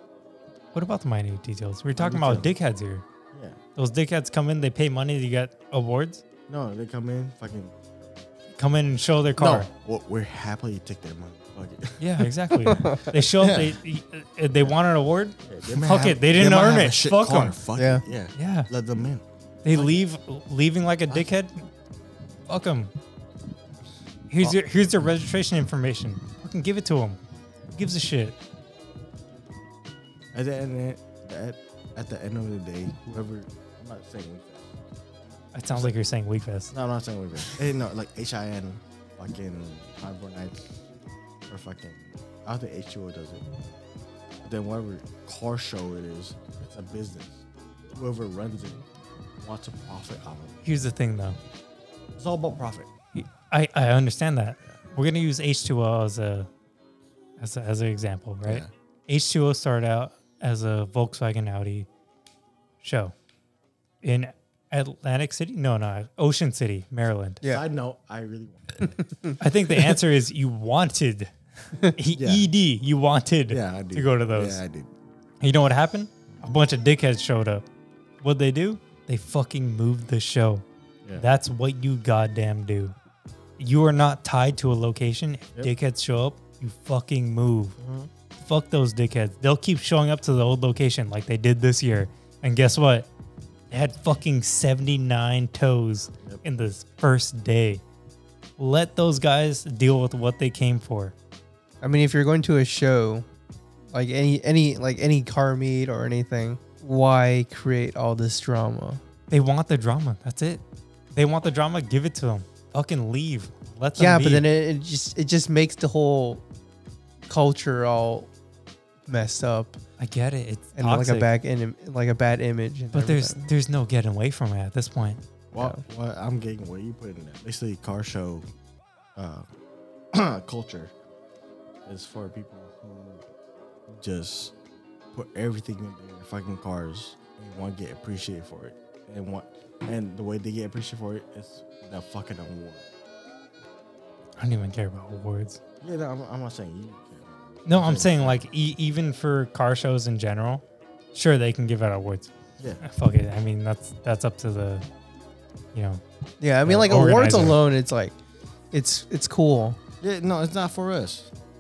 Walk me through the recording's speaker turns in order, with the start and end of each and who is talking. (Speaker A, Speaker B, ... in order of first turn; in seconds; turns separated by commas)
Speaker A: 0.7-3.0, Speaker B: 1.9-2.5, Speaker B: 3.3-3.6, Speaker A: 3.8-6.2, Speaker B: 6.5-8.1, Speaker A: 8.6-9.7, Speaker B: 9.4-13.8, Speaker A: 12.0-17.6, Speaker B: 15.4-20.0, Speaker C: 17.8-18.0, Speaker A: 18.4-18.7, Speaker A: 19.6-21.6, Speaker A: 22.5-22.9, Speaker A: 24.3-27.2, Speaker A: 27.8-28.4, Speaker B: 30.3-34.7, Speaker A: 35.5-36.7, Speaker B: 36.7-40.6, Speaker B: 41.5-43.8, Speaker B: 44.4-48.9, Speaker B: 49.4-50.6, Speaker A: 50.6-51.4, Speaker B: 52.2-52.9, Speaker A: 53.1-56.5, Speaker A: 57.4-61.9, Speaker A: 62.8-63.1, Speaker A: 64.0-67.4, Speaker B: 67.4-69.0, Speaker A: 69.4-71.3, Speaker A: 72.0-74.6, Speaker B: 72.2-72.5, Speaker B: 73.5-74.9, Speaker A: 75.4-77.7, Speaker A: 78.2-80.6, Speaker A: 81.2-83.0, Speaker A: 83.6-87.8, Speaker B: 87.8-88.1, Speaker A: 88.4-93.1, Speaker A: 93.7-97.8, Speaker A: 98.6-101.1, Speaker C: 101.8-103.3, Speaker C: 103.9-109.0, Speaker A: 109.3-110.6, Speaker A: 111.1-114.5, Speaker C: 114.0-116.4, Speaker C: 117.3-118.3, Speaker C: 119.1-119.8, Speaker A: 120.0-121.3, Speaker C: 120.8-123.5, Speaker A: 122.9-125.2, Speaker B: 125.5-128.5, Speaker B: 129.2-129.5, Speaker B: 130.1-130.9, Speaker B: 131.9-133.2, Speaker B: 133.9-134.5, Speaker B: 135.1-142.9, Speaker A: 144.4-145.6, Speaker B: 145.8-148.4, Speaker A: 147.7-150.6, Speaker A: 151.1-154.8, Speaker A: 155.7-156.0, Speaker C: 156.4-158.2, Speaker A: 156.6-157.6, Speaker C: 158.7-159.8, Speaker B: 160.0-161.3